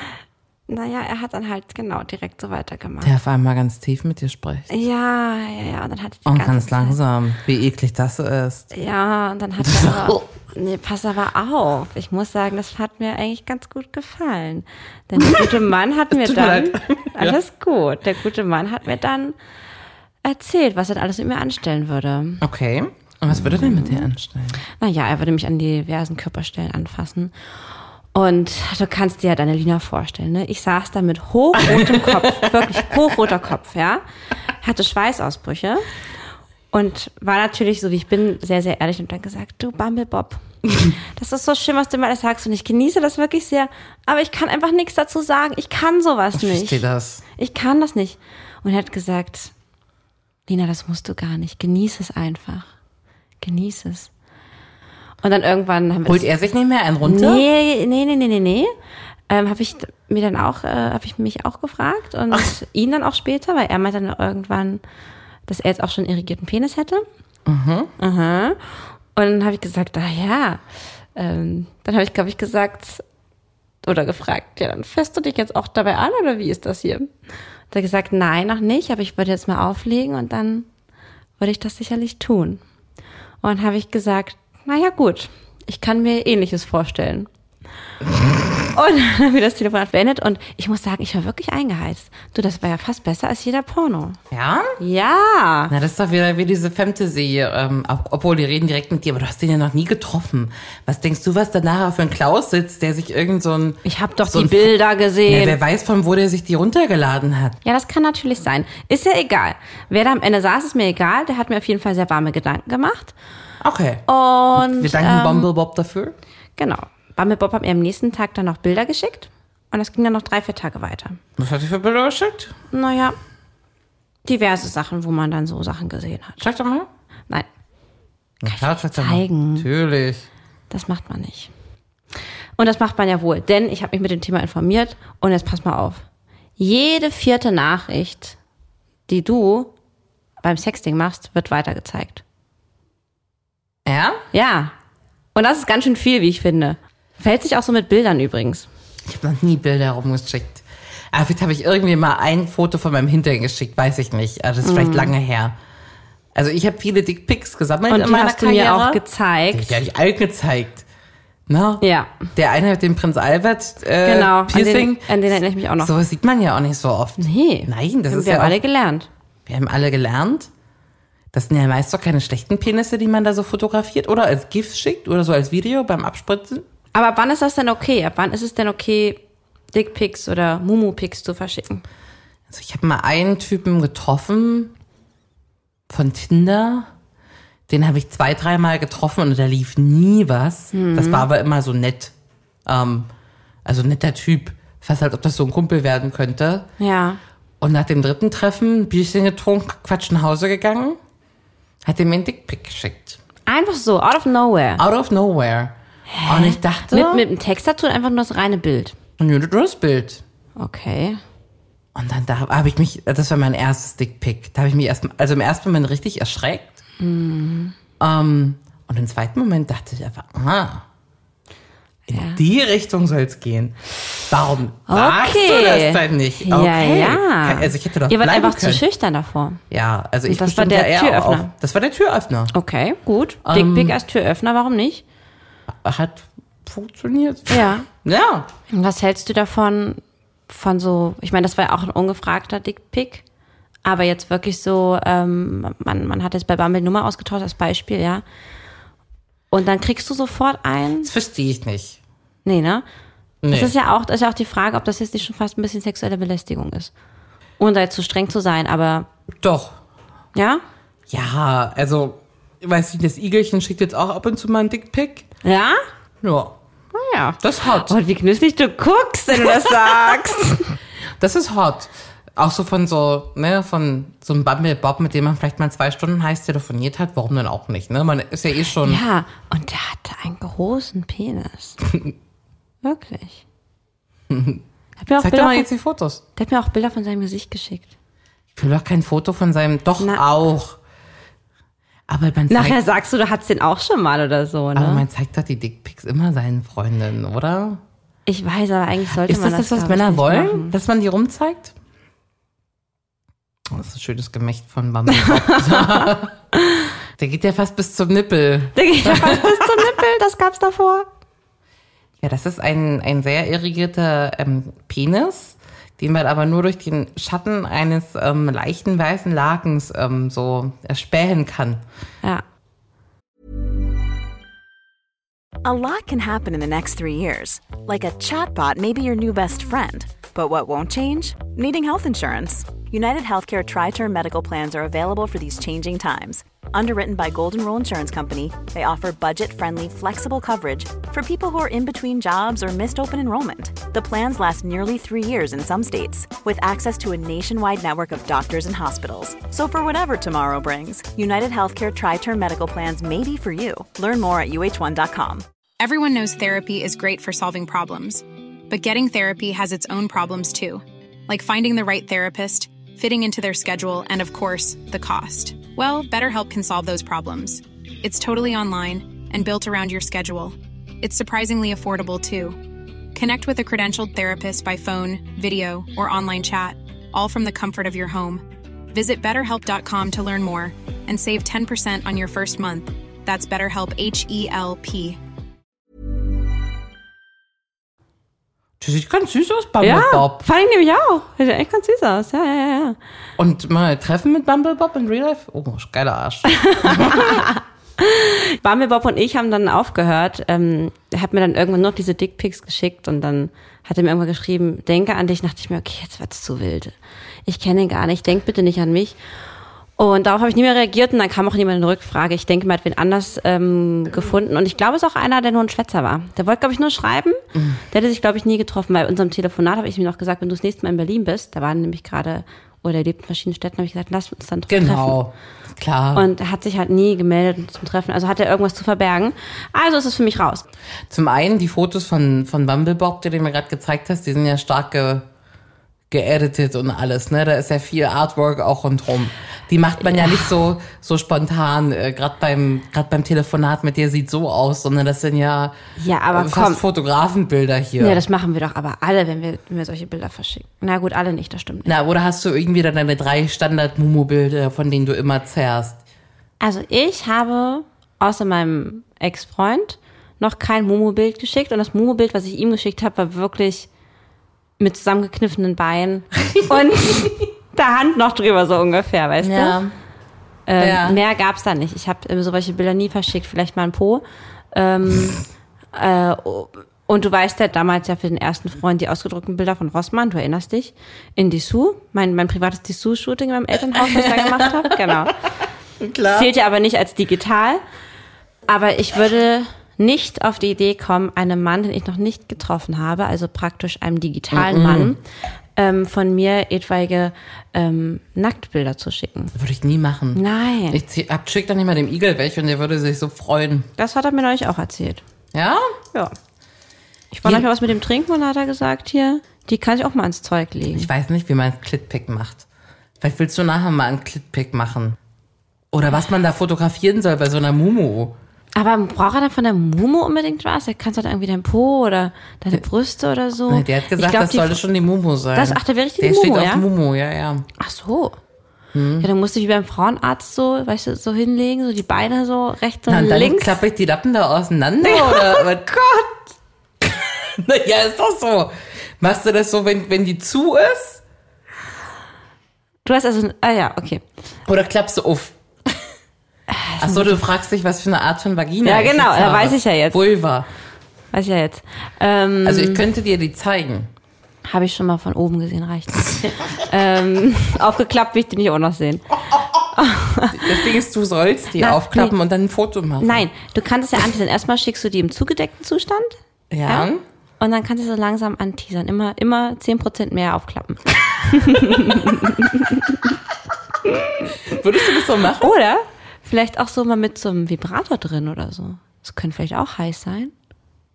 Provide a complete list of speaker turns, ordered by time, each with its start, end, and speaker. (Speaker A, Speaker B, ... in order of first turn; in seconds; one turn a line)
Speaker A: 0.7-3.1
Speaker B: 3.0-4.7
Speaker A: 4.7-7.0
Speaker B: 6.2-8.7
Speaker A: 8.7-19.4
Speaker B: 9.6-10.2
Speaker B: 15.2-15.6
Speaker B: 16.1-17.4
Speaker A: 20.2-22.4
Speaker B: 22.4-24.6
Speaker A: 23.3-24.1
Speaker A: 24.8-27.3
Speaker A: 28.1-34.0
Speaker B: 31.6-32.9
Speaker A: 34.6-35.8
Speaker A: 36.7-46.8
Speaker B: 46.3-47.2
Speaker A: 47.4-49.5
Speaker A: 50.5-52.7
Speaker A: 53.4-54.1
Speaker A: 55.2-56.3
Speaker B: 56.0-57.5
Speaker A: 57.0-58.7
Speaker A: 59.3-64.8
Speaker A: 65.5-67.0
Speaker B: 67.5-67.9
Speaker A: 68.0-68.6
Speaker A: 69.1-70.6
Speaker A: 71.1-73.0
Speaker A: 73.8-77.1
Speaker A: 77.7-80.7
Speaker A: 81.4-82.6
Speaker A: 83.4-87.3
Speaker A: 88.7-94.2
Speaker B: 94.3-94.8
Speaker A: 94.8-95.7
Speaker B: 95.7-107.6
Speaker A: 103.8-105.6
Speaker A: 107.6-113.1
Speaker B: 113.6-116.1
Speaker A: 114.1-115.5
Speaker A: 116.6-121.2
Speaker B: 121.4-122.5
Speaker A: 122.7-123.2
Speaker A: 124.2-126.4
Speaker B: 126.4-126.9
Speaker B: 128.4-130.3
Speaker A: 128.5-129.7
Speaker A: 130.7-131.5
Speaker A: 132.6-136.0
Speaker A: 136.6-138.4
Speaker A: 139.1-139.7
Speaker A: 140.4-142.2
Speaker B: 143.8-144.2
Speaker A: 144.3-144.7
Speaker A: 145.3-148.7
Speaker B: 149.0-155.6
Speaker A: 154.6-155.1
Speaker B: 156.3-159.0
Speaker A: 157.9-159.8
Speaker B: 159.5-160.8
Speaker B: 161.5-168.6
Speaker A: 161.8-162.1
Speaker A: 164.0-165.9
Speaker A: 167.2-169.1
Speaker B: 169.4-170.5
Speaker B: 171.3-176.7
Speaker A: 176.9-179.2
Speaker A: 179.7-181.8
Speaker B: 182.5-184.7
Speaker B: 185.9-186.9
Speaker B: 187.7-192.1
Speaker A: 190.7-191.2
Speaker B: 192.7-193.1
Speaker B: 193.6-196.7
Speaker A: 196.8-197.2
Speaker B: 197.6-201.0
Speaker B: 201.8-203.2
Speaker A: 203.5-204.8
Speaker B: 204.8-205.7
Speaker A: 206.1-208.9
Speaker B: 206.2-207.2
Speaker B: 209.2-210.2
Speaker A: 210.6-211.2
Speaker B: 211.9-216.8
Speaker A: 217.0-217.7
Speaker B: 218.0-220.8
Speaker B: 222.1-228.8
Speaker A: 222.1-222.4
Speaker A: 224.9-229.6
Speaker B: 229.7-232.5
Speaker A: 230.3-231.5
Speaker A: 232.5-235.0
Speaker B: 233.4-234.0
Speaker B: 235.7-238.5
Speaker A: 237.5-237.8
Speaker A: 238.7-243.2
Speaker A: 243.8-248.2
Speaker A: 249.5-251.1
Speaker B: 251.0-252.0
Speaker A: 252.4-252.8
Speaker B: 253.4-253.7
Speaker A: 253.5-256.9
Speaker A: 257.6-259.1
Speaker B: 259.4-259.8
Speaker A: 260.3-260.6
Speaker B: 261.1-265.2
Speaker A: 265.4-265.8
Speaker B: 266.2-266.5
Speaker A: 266.9-270.7
Speaker B: 267.4-267.9
Speaker B: 269.4-270.1
Speaker B: 271.2-279.0
Speaker A: 278.8-281.8
Speaker A: 282.8-283.4
Speaker B: 284.3-284.6
Speaker A: 285.0-285.7
Speaker B: 285.2-286.2
Speaker A: 286.4-287.9
Speaker B: 288.6-290.8
Speaker B: 292.1-292.8
Speaker A: 292.5-295.0
Speaker B: 294.7-297.8
Speaker A: 298.3-300.7
Speaker B: 299.2-301.7
Speaker B: 303.7-306.3
Speaker A: 305.1-306.8
Speaker B: 307.2-310.0
Speaker A: 308.7-311.1
Speaker B: 312.2-321.8
Speaker C: 325.6-355.4
Speaker D: 355.8-372.6
Speaker D: 373.1-385.2
Speaker B: 388.8-390.4
Speaker A: 389.8-393.0
Speaker B: 393.4-397.4
Speaker A: 396.5-406.9
Speaker A: 407.4-409.1
Speaker A: 410.0-417.4
Speaker B: 417.5-417.8
Speaker A: 417.9-425.2
Speaker B: 424.7-426.3
Speaker A: 426.1-430.6
Speaker B: 431.1-435.2
Speaker B: 436.1-445.7
Speaker A: 440.0-440.5
Speaker A: 446.0-446.8
Speaker B: 446.3-448.2
Speaker A: 448.0-451.9
Speaker B: 451.9-456.0
Speaker A: 456.6-463.9
Speaker A: 464.8-469.8
Speaker B: 469.4-469.9
Speaker A: 470.7-475.4
Speaker B: 470.8-471.2
Speaker A: 475.9-485.3
Speaker B: 483.9-485.3
Speaker B: 486.0-486.5
Speaker A: 486.3-487.8
Speaker A: 488.7-495.2
Speaker B: 494.5-495.2
Speaker A: 495.8-499.5
Speaker B: 499.5-503.9
Speaker A: 500.3-501.0
Speaker A: 504.0-505.2
Speaker B: 505.5-505.9
Speaker A: 507.3-511.1
Speaker B: 510.9-512.6
Speaker B: 513.2-515.2
Speaker B: 515.9-518.4
Speaker A: 518.7-524.8
Speaker B: 523.7-527.7
Speaker A: 525.5-526.8
Speaker A: 527.8-528.4
Speaker B: 528.9-529.3
Speaker A: 529.2-533.8
Speaker B: 533.1-535.9
Speaker A: 535.0-536.4
Speaker B: 537.0-541.2
Speaker A: 543.0-544.2
Speaker B: 544.6-545.5
Speaker A: 546.7-547.4
Speaker B: 547.0-550.7
Speaker A: 548.8-550.2
Speaker A: 551.3-553.0
Speaker B: 552.6-554.1
Speaker A: 554.6-559.2
Speaker A: 559.9-560.9
Speaker B: 560.5-563.5
Speaker A: 561.8-562.3
Speaker A: 563.2-567.1
Speaker B: 566.7-567.2
Speaker A: 567.6-573.0
Speaker B: 571.8-572.3
Speaker B: 574.1-575.7
Speaker A: 575.6-580.5